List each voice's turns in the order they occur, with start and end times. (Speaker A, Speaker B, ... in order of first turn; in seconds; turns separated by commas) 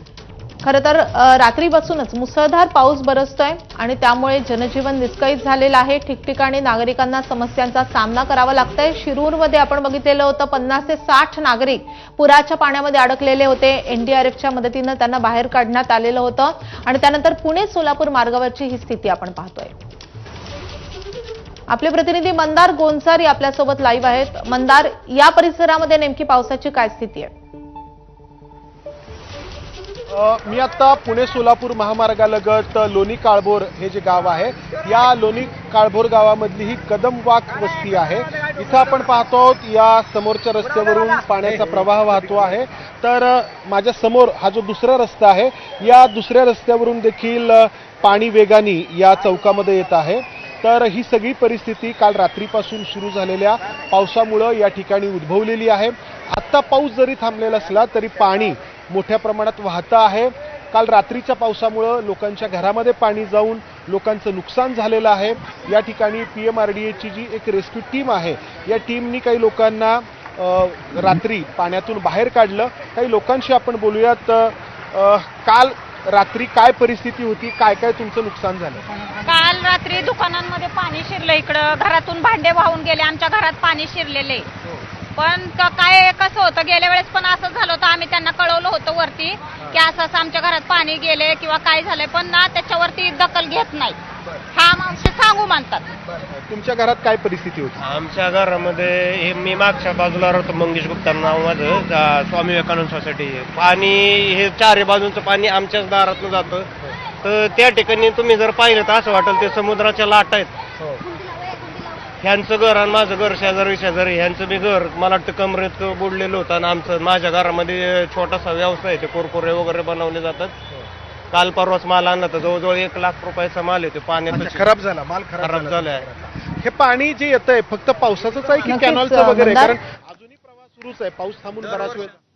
Speaker A: 0.6-19.7, Speaker A: 21.7-27.3, Speaker B: 30.1-78.8, Speaker C: 79.2-84.5, Speaker C: 85.2-94.0, Speaker C: 94.5-95.9, Speaker B: 96.5-97.8, Speaker D: 97.8-106.7, Speaker D: 107.2-110.5, Speaker D: 112.2-120.5, Speaker D: 121.3-124.7, Speaker B: 124.3-132.2, Speaker D: 125.4-126.1, Speaker A: 128.7-129.7